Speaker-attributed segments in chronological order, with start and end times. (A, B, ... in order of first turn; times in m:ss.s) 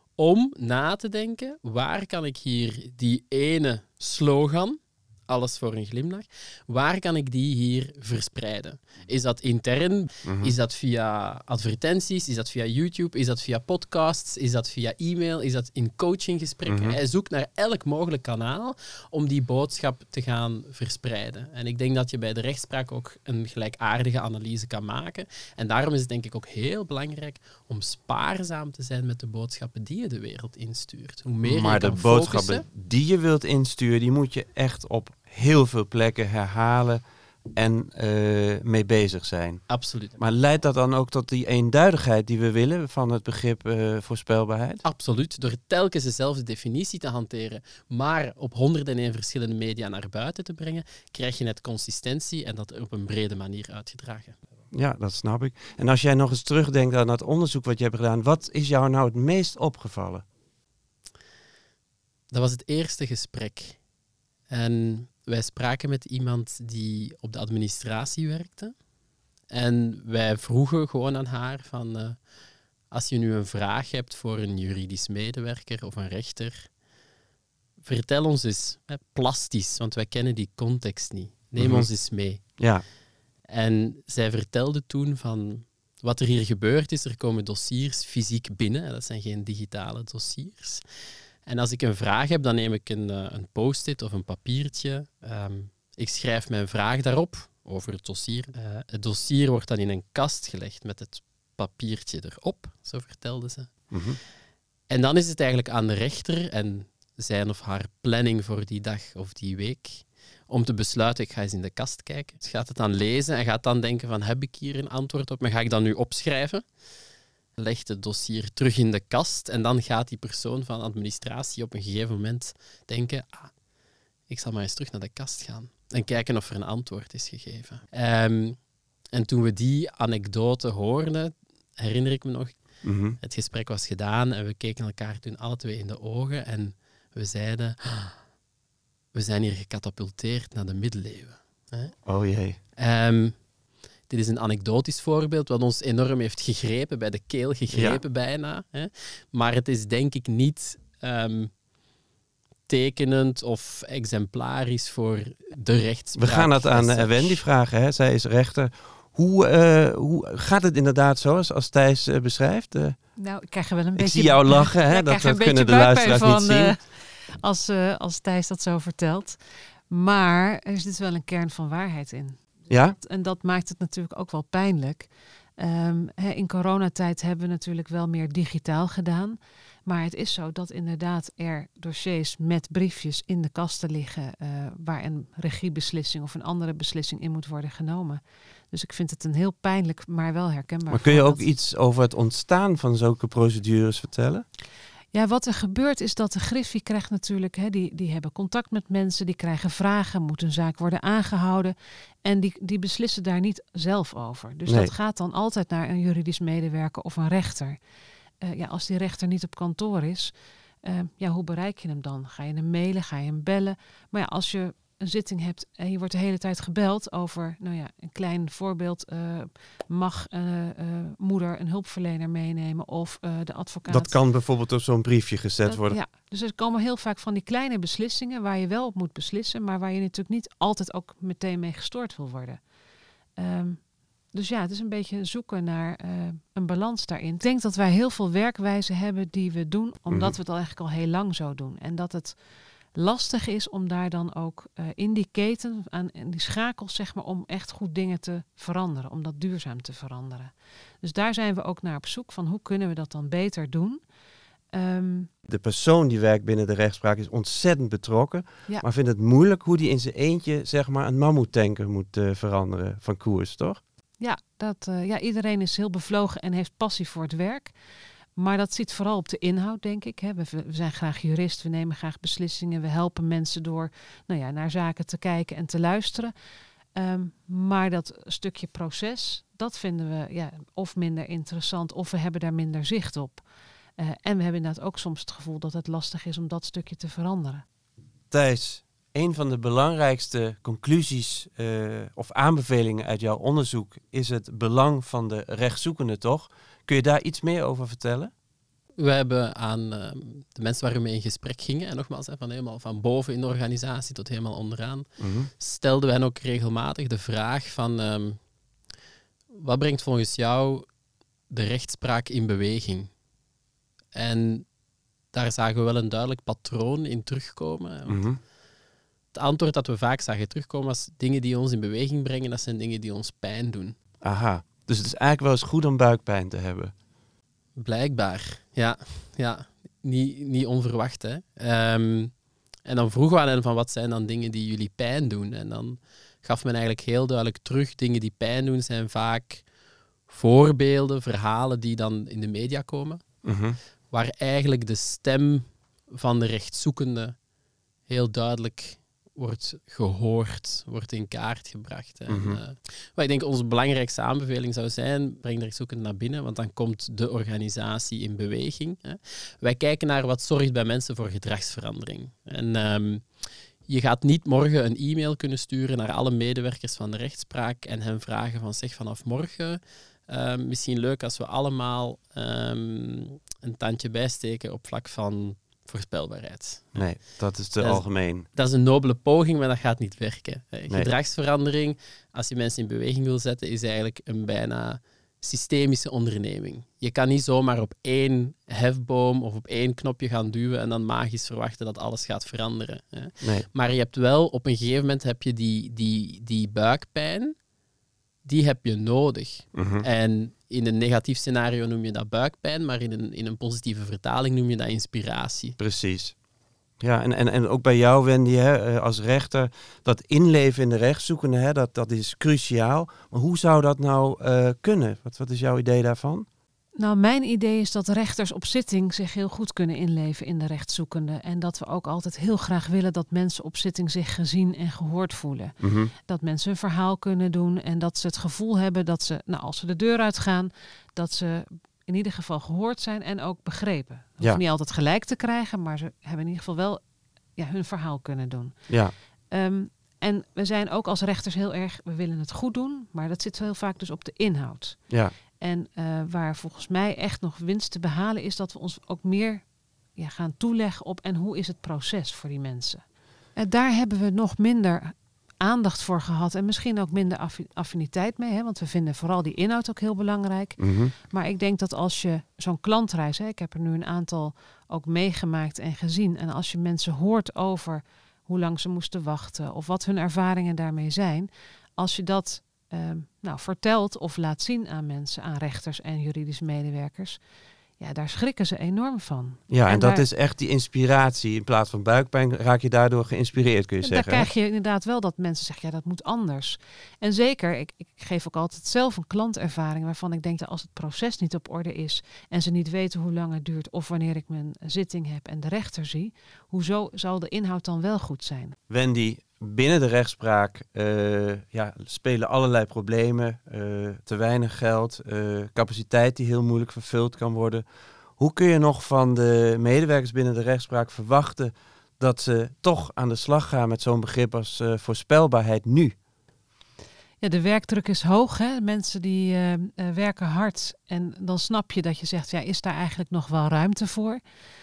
0:00.2-0:32.6 A
0:10.2-0:10.5 B
0:16.7-0:17.0 B
0:31.4-0:37.0 B
0:37.5-0:39.6 B
0:39.7-0:40.2 A
0:40.2-0:44.8 B
0:44.8-0:54.4 A
0:54.7-1:00.2 B
1:02.3-1:03.8 A
1:04.5-1:08.7 A
1:09.5-1:12.2 A
1:12.9-1:16.7 A
1:17.8-1:22.4 A
1:21.6-1:21.9 B
1:22.6-1:22.8 B
1:23.4-1:30.8 A
1:31.4-1:43.7 A
1:43.9-1:44.2 B
1:44.9-1:56.6 A
1:57.6-2:03.5 A
2:04.3-2:08.6 A
2:09.1-2:12.6 A
2:12.8-2:13.2 B
2:13.2-2:18.2 A
2:19.1-2:22.0 A
2:22.0-2:22.6 B
2:22.8-2:23.4 A
2:24.1-2:31.5 A
2:27.7-2:28.0 B
2:32.7-2:37.4 A
2:36.2-2:43.0 B
2:43.2-2:52.4 C
2:43.9-2:46.7 B
2:52.7-2:53.0 B
2:53.0-3:11.4 C
3:10.9-3:14.4 B
3:15.1-3:27.8 C
3:28.4-3:30.3 C
3:30.8-3:44.2 C
3:43.9-3:46.0 B
3:45.6-3:52.6 C
3:53.4-3:53.8 C
3:54.3-4:02.4 C
4:02.9-4:14.0 C
4:14.7-4:15.3 C
4:15.5-4:23.8 B
4:24.2-4:27.7 C
4:28.4-4:36.3 C
4:37.0-4:43.4 C
4:44.0-4:47.6 C
4:48.3-4:58.3 B
4:59.0-5:05.1 A
5:05.2-5:05.5 B
5:05.6-5:08.4 A
5:09.5-5:10.8 A
5:11.5-5:13.1 A
5:14.1-5:14.7 A
5:15.3-5:18.2 A
5:18.1-5:18.4 B
5:19.3-5:24.0 A
5:24.2-5:26.9 B
5:27.8-5:32.3 A
5:32.8-5:39.6 A
5:40.3-5:43.2 A
5:43.4-5:43.8 B
5:44.1-5:47.4 A
5:48.1-6:03.3 A
5:52.3-5:52.6 B
6:03.9-6:17.1 A
6:16.9-6:18.4 B
6:17.8-6:37.5 A
6:38.4-6:45.8 A
6:39.7-6:40.0 B
6:45.8-6:46.3 B
6:47.0-6:56.5 B
6:57.0-7:17.0 C
7:05.8-7:06.1 B
7:17.6-7:18.7 C
7:18.9-7:19.1 B
7:19.5-7:25.0 C
7:25.6-7:29.6 C
7:30.2-7:33.0 C
7:33.6-7:57.4 C
7:40.8-7:41.1 B
7:58.0-8:00.2 C
7:59.7-8:04.5 B
8:04.0-8:18.8 C
8:18.9-8:27.8 B
8:28.4-8:36.1 B
8:37.4-8:44.4 C